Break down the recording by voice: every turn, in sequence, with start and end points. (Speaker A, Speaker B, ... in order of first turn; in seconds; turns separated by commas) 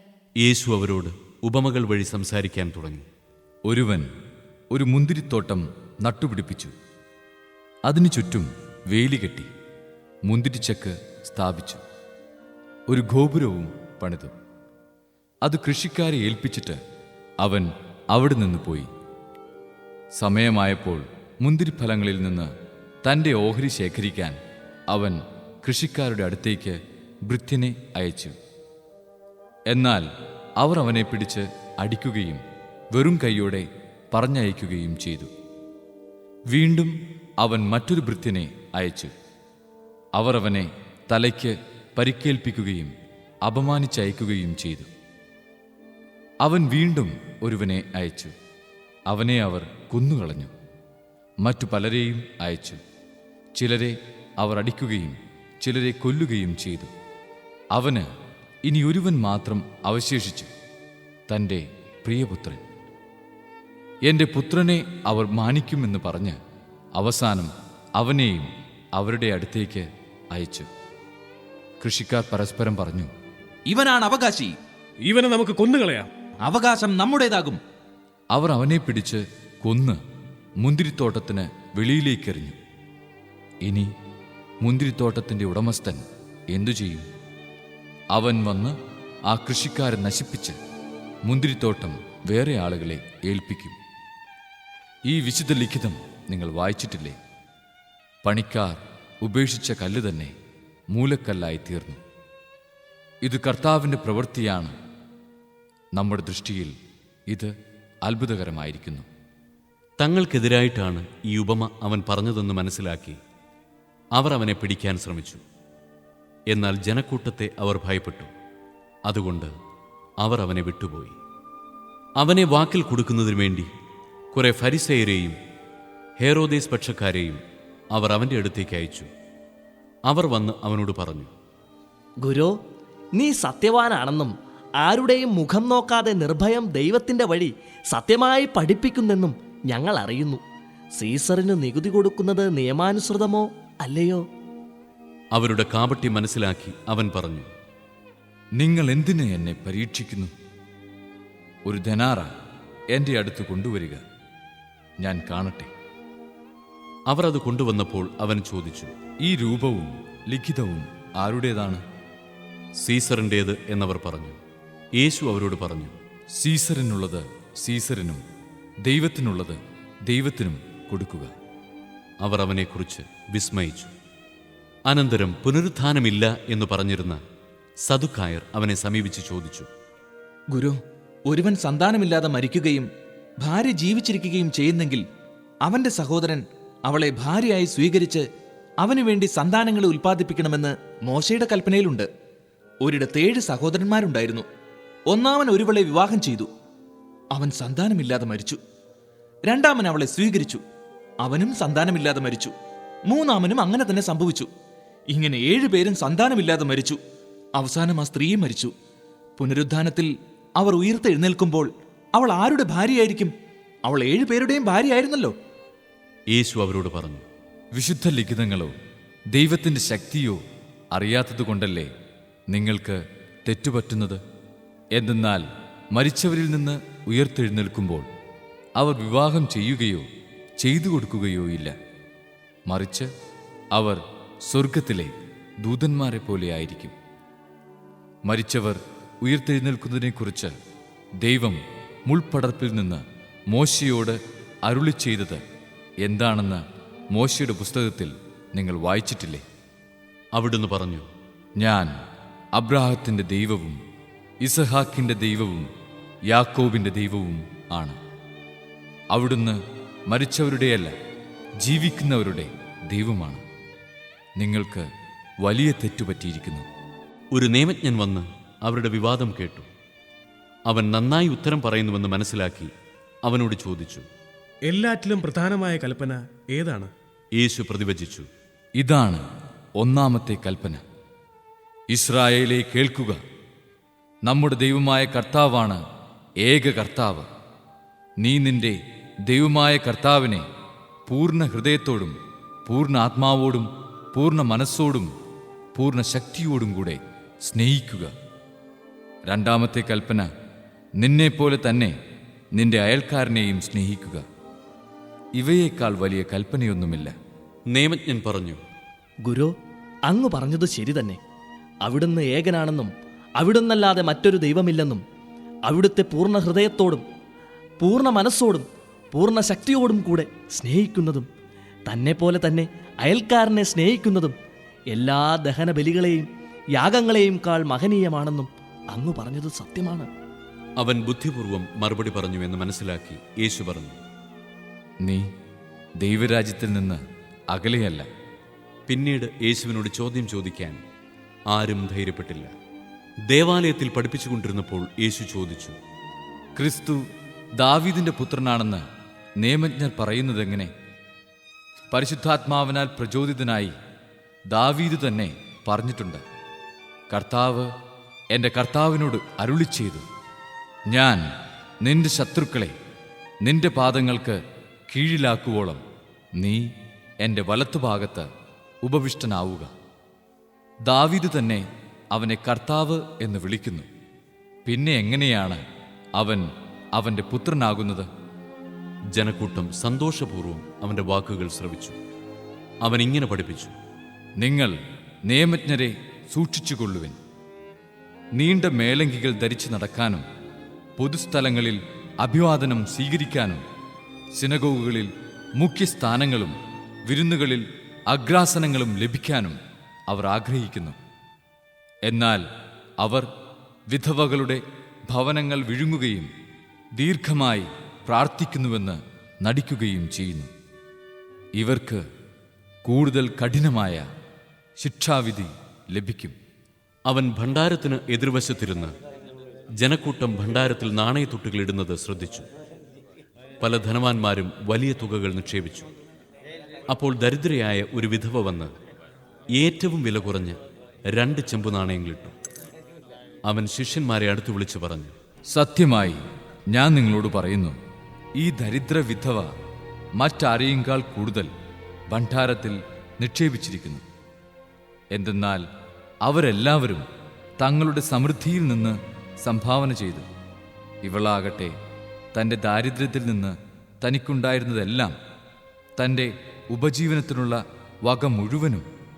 Speaker A: 0.4-3.1, Speaker B: 3.7-4.1, Speaker B: 4.7-6.7, Speaker B: 7.9-9.5, Speaker B: 10.2-11.8, Speaker B: 12.9-14.3, Speaker B: 15.4-16.8, Speaker B: 17.4-18.9, Speaker B: 20.2-22.5, Speaker B: 23.0-24.4, Speaker B: 24.9-28.4, Speaker B: 29.7-30.1, Speaker B: 30.6-32.4, Speaker B: 32.9-35.3, Speaker B: 36.5-39.1, Speaker B: 40.2-42.9, Speaker B: 43.4-44.9, Speaker B: 46.4-48.3, Speaker B: 49.1-50.5, Speaker B: 51.4-52.8, Speaker B: 53.5-56.9, Speaker B: 57.7-58.1, Speaker B: 58.6-60.5, Speaker B: 61.3-62.6, Speaker B: 64.1-66.4, Speaker B: 67.0-70.7, Speaker B: 71.8-73.1, Speaker C: 73.7-74.5, Speaker D: 75.0-76.1, Speaker C: 76.4-77.6, Speaker B: 78.3-80.0, Speaker B: 80.6-82.5, Speaker B: 84.6-87.1, Speaker B: 88.1-88.8, Speaker B: 89.3-90.6, Speaker B: 91.3-93.8, Speaker B: 95.1-97.2, Speaker B: 98.2-100.3, Speaker B: 100.9-102.0, Speaker B: 103.2-104.7, Speaker B: 106.0-106.7, Speaker B: 108.1-109.1, Speaker A: 110.0-113.2, Speaker A: 114.2-115.4, Speaker A: 116.5-118.3, Speaker A: 119.1-119.5, Speaker A: 120.2-121.2, Speaker A: 122.2-123.7, Speaker A: 124.3-125.4, Speaker A: 126.2-127.4, Speaker A: 127.9-129.1, Speaker A: 130.1-131.3, Speaker E: 132.2-132.5, Speaker E: 133.2-140.4, Speaker E: 140.9-144.2, Speaker A: 145.3-147.5, Speaker B: 148.6-150.3, Speaker B: 151.7-152.3, Speaker B: 152.9-154.0, Speaker B: 155.0-155.7, Speaker A: 157.1-158.9, Speaker B: 159.2-161.8, Speaker A: 162.8-164.4, Speaker A: 165.0-165.9, Speaker B: 166.4-168.2, Speaker B: 168.8-171.3, Speaker A: 172.2-173.9, Speaker A: 174.9-177.2, Speaker A: 177.9-179.7, Speaker C: 180.5-182.9, Speaker C: 183.4-185.0, Speaker C: 185.7-188.2, Speaker C: 188.8-192.1, Speaker C: 192.8-194.5, Speaker C: 195.1-196.5, Speaker C: 197.3-198.6, Speaker C: 199.5-200.6, Speaker C: 201.2-202.5, Speaker C: 203.1-204.5, Speaker C: 205.1-207.0, Speaker C: 207.6-208.7, Speaker C: 209.4-213.3, Speaker C: 213.8-215.3, Speaker A: 216.3-217.2, Speaker B: 217.7-218.7, Speaker B: 219.3-220.4, Speaker B: 220.9-221.9, Speaker B: 222.5-224.2, Speaker B: 224.9-228.1, Speaker B: 228.8-230.1, Speaker B: 230.6-231.7, Speaker B: 232.7-233.1, Speaker B: 233.7-235.1, Speaker B: 235.6-236.9, Speaker B: 238.2-240.5, Speaker B: 241.2-245.4, Speaker B: 246.0-246.6, Speaker B: 247.1-249.4, Speaker A: 250.3-251.1, Speaker B: 251.6-251.9, Speaker B: 252.6-253.8, Speaker B: 254.4-255.7, Speaker B: 256.3-258.0, Speaker B: 259.1-260.9, Speaker B: 261.6-263.4, Speaker B: 264.4-264.9, Speaker B: 265.4-266.6, Speaker A: 267.3-269.7, Speaker A: 270.7-272.7, Speaker A: 273.2-274.1, Speaker D: 274.7-276.9, Speaker A: 277.4-278.3, Speaker B: 278.8-279.2, Speaker B: 279.8-280.8, Speaker B: 281.9-283.2, Speaker B: 284.2-285.8, Speaker B: 286.4-287.3, Speaker B: 288.2-288.8, Speaker B: 289.3-290.4, Speaker B: 291.1-292.1, Speaker B: 292.6-295.1, Speaker B: 295.7-298.1, Speaker B: 299.3-300.3, Speaker B: 301.0-301.9, Speaker B: 302.6-304.2, Speaker B: 305.4-307.1, Speaker A: 307.7-308.6, Speaker E: 309.2-309.5, Speaker E: 310.1-311.2, Speaker E: 311.8-315.0, Speaker E: 315.7-317.0, Speaker E: 317.8-321.3, Speaker E: 321.9-324.4, Speaker E: 324.9-330.1, Speaker A: 330.8-334.0, Speaker B: 336.0-337.0, Speaker B: 337.5-338.1, Speaker A: 338.9-340.8, Speaker A: 341.5-342.5, Speaker A: 343.3-345.8, Speaker B: 346.6-347.0, Speaker B: 347.6-348.8, Speaker B: 349.4-350.7, Speaker B: 351.9-353.7, Speaker B: 354.5-356.2, Speaker B: 357.1-357.7, Speaker B: 358.3-360.1, Speaker B: 360.9-361.2, Speaker B: 361.8-362.7, Speaker B: 363.4-365.8, Speaker B: 366.4-366.6, Speaker B: 367.2-368.3, Speaker B: 368.8-369.7, Speaker B: 370.9-373.9, Speaker B: 374.6-375.6, Speaker B: 376.2-378.1, Speaker A: 379.1-382.0, Speaker A: 382.9-383.7, Speaker B: 384.4-384.8, Speaker B: 385.3-387.2, Speaker B: 388.4-390.2, Speaker B: 391.0-393.6, Speaker B: 394.4-396.5, Speaker B: 397.1-399.6, Speaker B: 400.1-401.0, Speaker B: 402.1-402.4, Speaker B: 403.0-403.3, Speaker B: 403.9-406.3, Speaker B: 407.0-410.5, Speaker B: 411.6-412.0, Speaker B: 412.9-414.0, Speaker B: 414.8-416.3, Speaker A: 417.1-418.9, Speaker A: 419.8-422.5, Speaker A: 423.6-425.9, Speaker A: 426.9-428.7, Speaker A: 429.6-430.6, Speaker A: 431.1-432.3, Speaker A: 433.5-435.1, Speaker B: 435.5-436.2, Speaker B: 436.7-437.8, Speaker B: 438.4-439.5, Speaker B: 440.2-441.5, Speaker B: 442.1-444.0, Speaker B: 445.1-445.6, Speaker B: 446.2-447.1, Speaker B: 447.6-450.2, Speaker B: 451.0-451.7, Speaker B: 452.3-455.1, Speaker B: 456.0-458.8